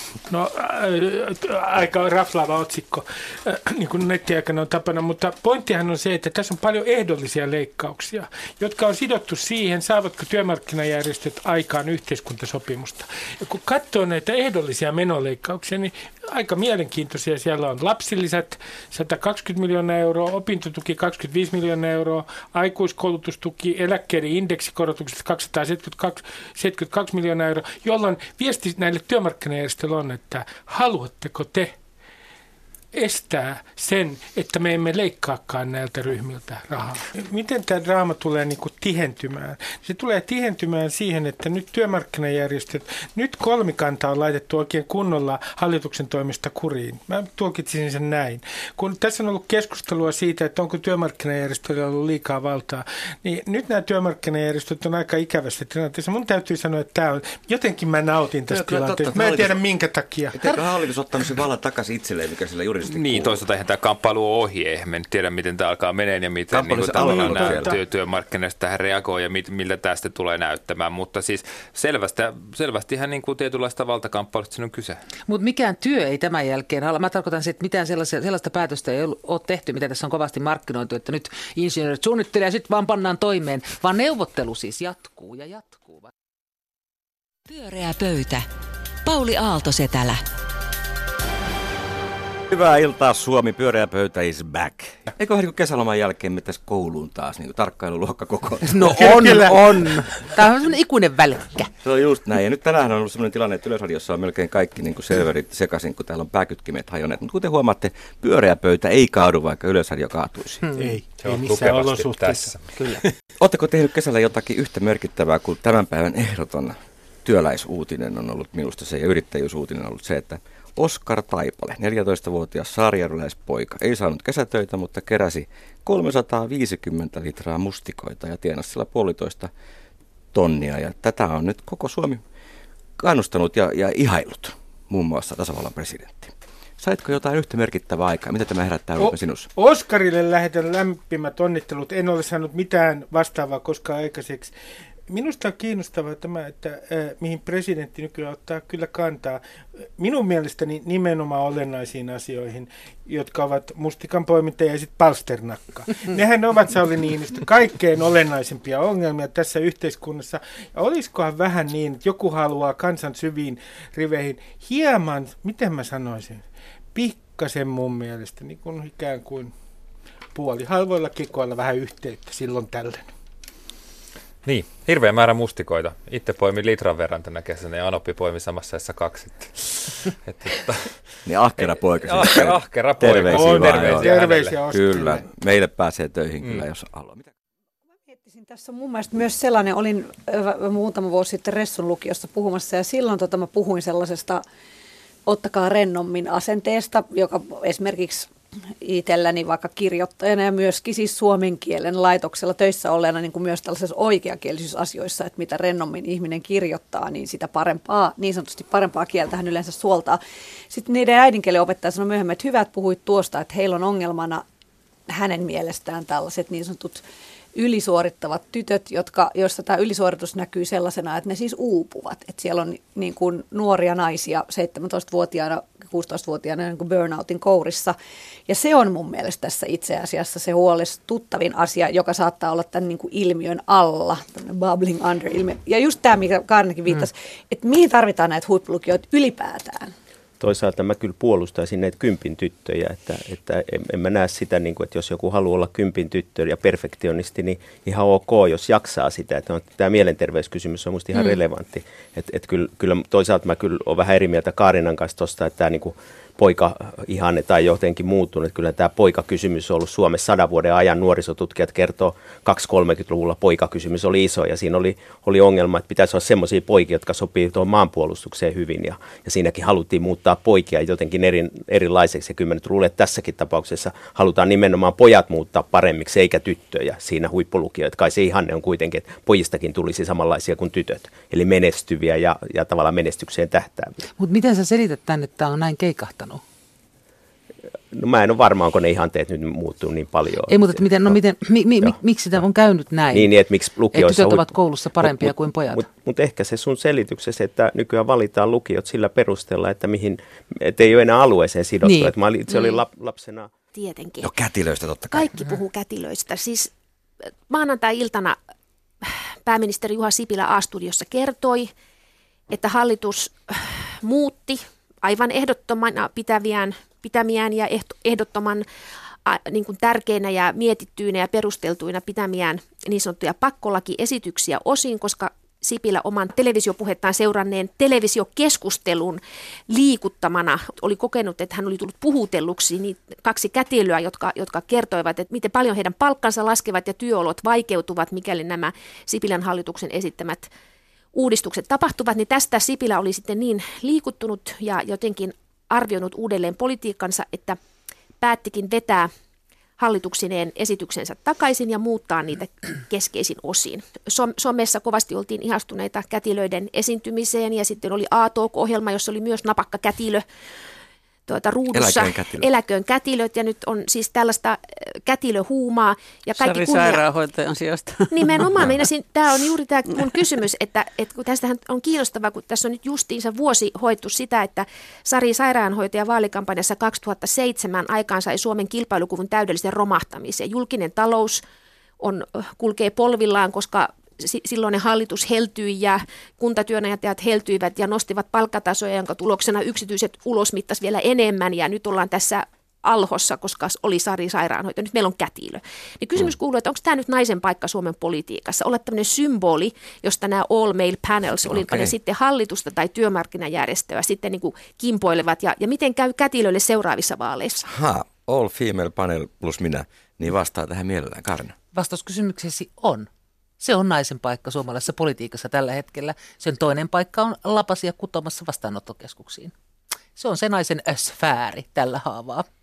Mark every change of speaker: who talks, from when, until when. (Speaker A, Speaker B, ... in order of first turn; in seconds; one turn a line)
Speaker A: 0.3-31.7
Speaker A: 32.9-60.5
Speaker B: 58.5-59.6
Speaker B: 60.3-63.4
Speaker C: 62.9-75.0
Speaker B: 66.5-67.8
Speaker A: 66.9-67.8
Speaker D: 75.3-86.1
Speaker E: 87.5-88.5
Speaker E: 89.0-90.2
Speaker B: 92.5-99.4
Speaker D: 98.7-101.7
Speaker A: 99.0-99.8
Speaker B: 101.8-110.7
Speaker A: 110.7-113.0
Speaker C: 111.2-112.7
Speaker B: 113.4-129.5
Speaker B: 130.3-132.2
Speaker B: 133.0-139.5
Speaker A: 139.0-144.5
Speaker A: 145.1-149.4
Speaker A: 150.0-169.5
Speaker A: 170.3-173.1
Speaker C: 174.4-180.9
Speaker B: 181.2-187.3
Speaker C: 182.0-184.6
Speaker A: 183.1-185.3
Speaker F: 188.0-194.4
Speaker F: 195.2-214.4
Speaker F: 215.1-217.0
Speaker F: 217.5-227.9
Speaker F: 228.5-239.9
Speaker G: 240.4-283.9
Speaker D: 284.2-286.4
Speaker G: 287.9-291.2
Speaker D: 290.5-293.3
Speaker G: 293.1-303.5
Speaker D: 293.9-295.9
Speaker D: 301.8-302.1
Speaker H: 302.5-302.8
Speaker H: 303.7-304.3
Speaker B: 304.2-305.3
Speaker H: 305.1-306.7
Speaker H: 307.5-308.4
Speaker H: 309.0-311.7
Speaker H: 312.5-318.6
Speaker H: 319.2-340.5
Speaker H: 341.1-347.6
Speaker H: 348.2-349.1
Speaker H: 349.8-360.2
Speaker H: 361.3-367.0
Speaker B: 361.7-362.5
Speaker I: 366.3-368.8
Speaker H: 368.1-381.4
Speaker H: 382.0-407.6
Speaker B: 401.4-401.9
Speaker B: 407.6-411.6
Speaker D: 411.7-413.1
Speaker D: 413.6-419.5
Speaker D: 420.1-422.5